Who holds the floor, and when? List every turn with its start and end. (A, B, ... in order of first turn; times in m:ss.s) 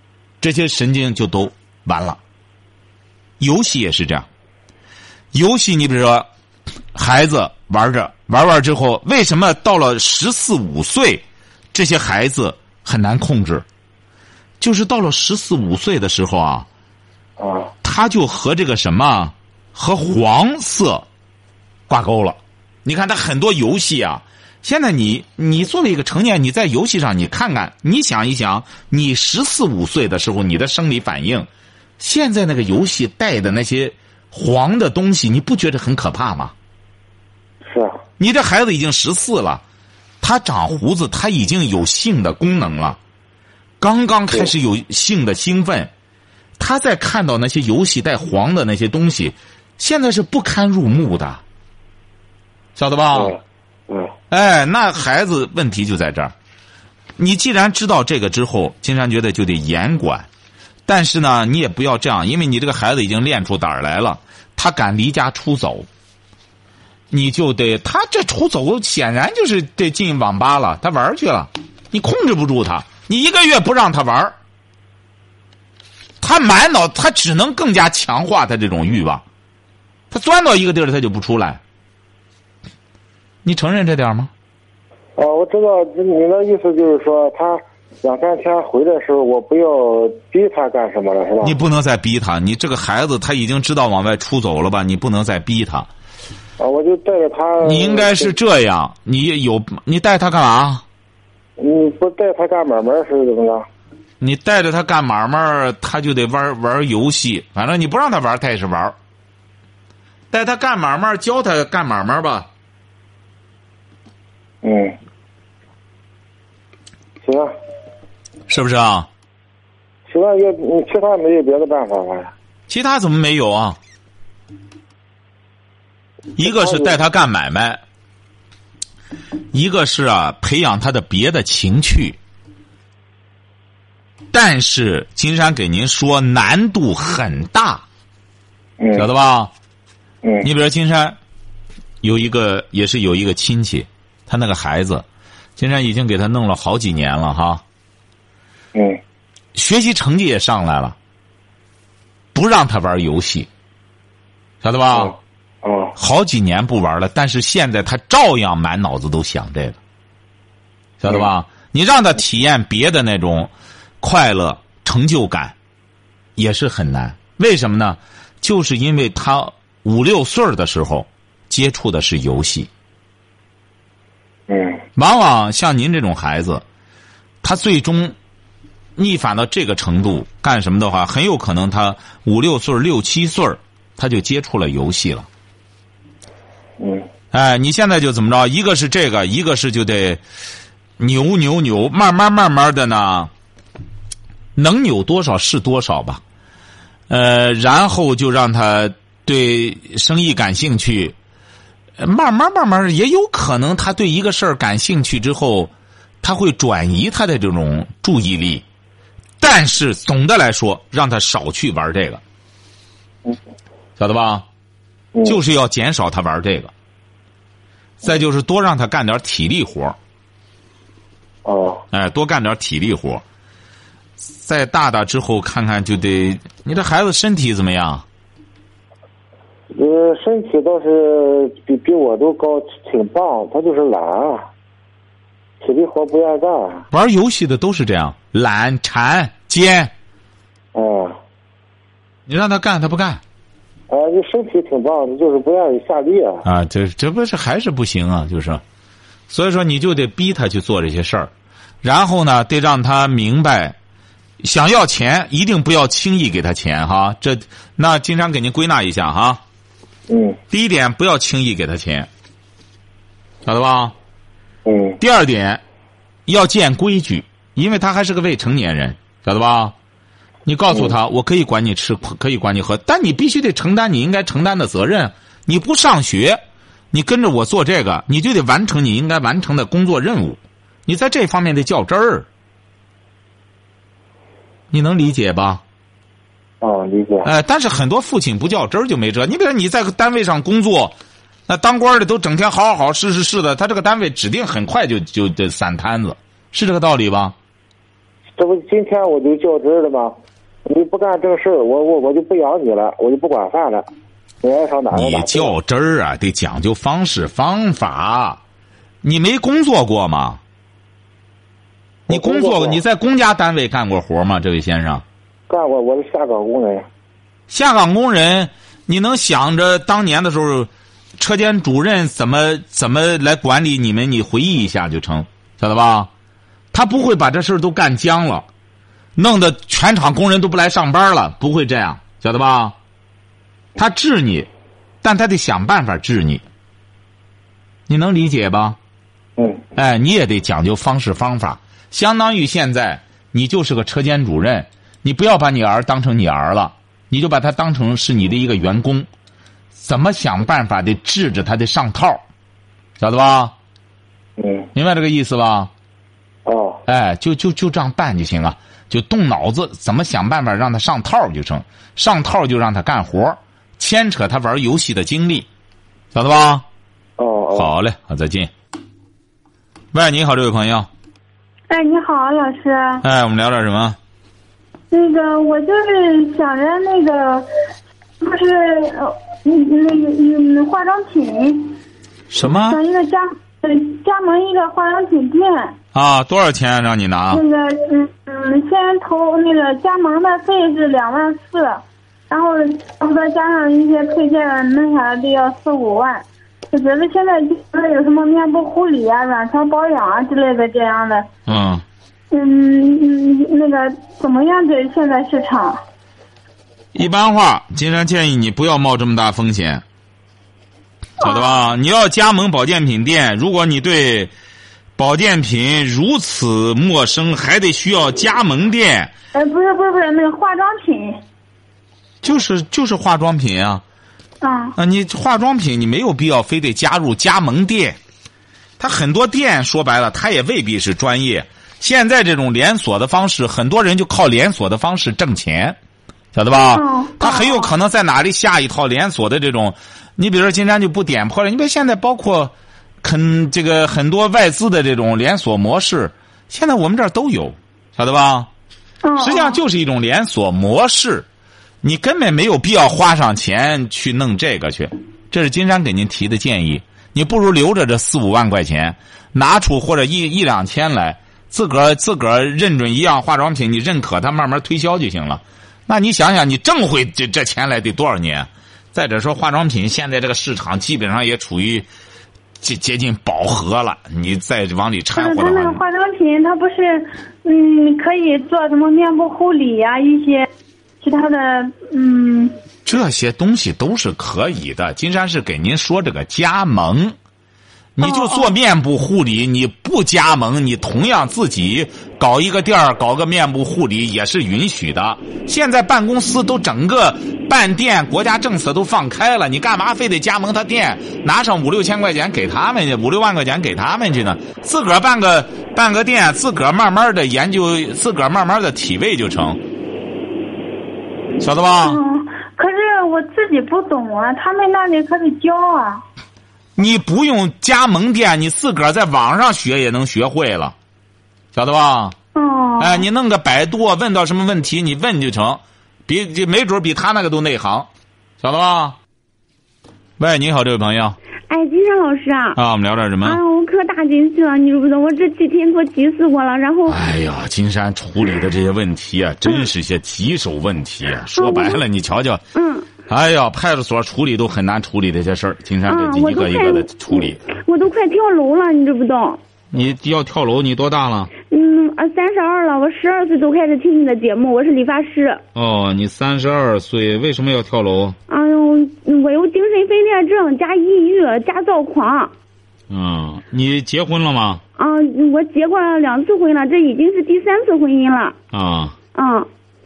0:00.4-0:02.2 A
0:03.4-0:04.2 A
0:05.3-0:06.3 A
0:06.9-0:13.6 A
0:14.6-0:16.6 A
0:17.4-0:17.7 B
0:17.8-0:21.0 A
0:21.9-0:31.5 A
0:32.0-0:36.5 A
0:37.6-0:38.0 B
0:38.2-0:39.6 A
0:40.2-0:43.0 A
0:43.8-0:45.9 A
0:46.6-0:51.4 A
0:52.8-0:53.4 A
0:53.1-0:53.4 B
0:54.3-0:56.3 A
0:57.2-1:00.3 A
1:00.9-1:05.8 A
1:07.1-1:14.3 A
1:16.2-1:19.2 A
1:20.1-1:21.6 A
1:23.4-1:24.3 A
1:25.2-1:31.6 B
1:31.4-1:35.9 A
1:36.6-1:38.3 B
1:37.6-1:40.8 A
1:41.6-1:43.7 B
1:44.2-1:48.9 A
1:50.3-1:52.5 A
1:54.6-1:55.0 B
1:57.2-1:57.5 B
1:58.5-1:59.1 A
2:00.1-2:02.3 B
2:02.7-2:03.8 A
2:06.4-2:07.8 A
2:06.4-2:06.9 B
2:09.5-2:12.2 A
2:14.3-2:17.8 A
2:18.8-2:19.0 B
2:18.9-2:19.5 A
2:20.2-2:20.5 B
2:20.4-2:21.2 A
2:22.0-2:25.0 A
2:25.6-2:27.6 A
2:28.7-2:29.0 B
2:29.5-2:30.9 A
2:32.3-2:33.5 A
2:34.6-2:35.1 A
2:34.9-2:35.9 B
2:36.0-2:39.8 A
2:41.0-2:43.5 A
2:44.0-2:45.5 A
2:46.4-2:52.7 A
2:54.5-2:54.8 B
2:55.0-2:56.6 A
2:57.4-2:58.1 A
2:59.0-3:05.3 A
3:06.8-3:07.1 B
3:07.3-3:10.2 A
3:11.0-3:13.3 A
3:14.6-3:16.2 A
3:17.1-3:21.1 A
3:22.0-3:25.7 A
3:26.2-3:28.6 A
3:29.4-3:32.2 A
3:34.0-3:34.4 A
3:35.2-3:36.7 A
3:38.0-3:40.0 A
3:41.4-3:41.8 B
3:41.9-3:43.2 A
3:44.2-3:48.0 A
3:49.7-3:54.5 B
3:55.6-3:56.8 B
3:56.9-3:59.9 A
4:00.7-4:01.2 B
4:02.3-4:03.2 A
4:03.9-4:06.4 B
4:06.4-4:08.6 A
4:09.3-4:11.3 A
4:11.8-4:13.7 A
4:14.4-4:19.4 A
4:20.1-4:20.4 B
4:20.5-4:22.1 A
4:23.4-4:23.9 A
4:24.6-4:25.0 B
4:25.0-4:25.6 A
4:26.3-4:29.7 A
4:30.4-4:36.4 A
4:36.9-4:42.2 A
4:44.7-4:45.6 A
4:46.6-4:47.3 B
4:47.2-4:50.9 A
4:51.5-4:57.3 A
4:58.4-5:03.9 B
5:04.4-5:05.5 B
5:04.9-5:08.4 A
5:09.0-5:10.4 A
5:12.1-5:12.8 B
5:12.1-5:15.0 A
5:15.5-5:16.9 B
5:17.5-5:26.1 A
5:26.7-5:28.4 A
5:29.2-5:32.7 A
5:33.8-5:34.5 A
5:35.0-5:36.4 A
5:37.9-5:38.8 A
5:39.4-5:39.6 B
5:39.8-5:49.1 A
5:49.7-5:52.2 A
5:53.0-5:53.5 A
5:54.4-5:54.7 B
5:54.7-5:55.7 A
5:56.4-5:56.8 B
5:56.9-6:05.5 A
6:06.1-6:06.6 A
6:07.2-6:07.7 B
6:07.5-6:08.5 A
6:09.9-6:10.9 A
6:11.7-6:13.0 C
6:13.0-6:14.0 A
6:14.9-6:17.5 C
6:18.2-6:21.8 C
6:22.3-6:22.8 A
6:22.4-6:25.7 C
6:25.9-6:27.4 A
6:27.3-6:41.3 C
6:41.5-6:41.8 A
6:42.3-6:45.8 C
6:46.9-6:49.8 A
6:51.2-6:51.6 C
6:51.2-6:54.3 A
6:55.0-6:59.1 A
6:59.3-7:01.2 C
7:02.2-7:03.8 A
7:04.4-7:04.8 C
7:04.8-7:08.0 A
7:08.8-7:15.8 A
7:16.3-7:28.5 A
7:16.5-7:17.7 C
7:29.0-7:29.6 C
7:29.2-7:31.2 A
7:31.8-7:51.9 A
7:52.6-7:55.8 A
7:55.1-8:00.5 C
8:01.0-8:02.6 C
8:02.8-8:07.2 A
8:08.0-8:29.6 A
8:08.0-8:08.5 C
8:31.4-8:32.0 A
8:31.8-8:36.0 C
8:36.8-8:40.7 A
8:41.5-8:42.1 A
8:42.3-8:43.1 C
8:42.8-8:47.9 A
8:48.4-8:49.0 A
8:50.2-8:51.2 A
8:51.5-8:52.6 D
8:52.6-8:53.4 A
8:53.2-8:57.0 D
8:56.9-9:02.4 A
9:01.3-9:01.8 D
9:02.5-9:02.9 D
9:03.1-9:07.4 A
9:05.9-9:09.4 D
9:09.7-9:11.3 A
9:11.5-9:15.4 D
9:15.5-9:18.2 A
9:18.3-9:22.3 D
9:22.9-9:24.6 A
9:24.8-9:28.4 D
9:28.5-9:28.9 A
9:29.1-9:29.5 D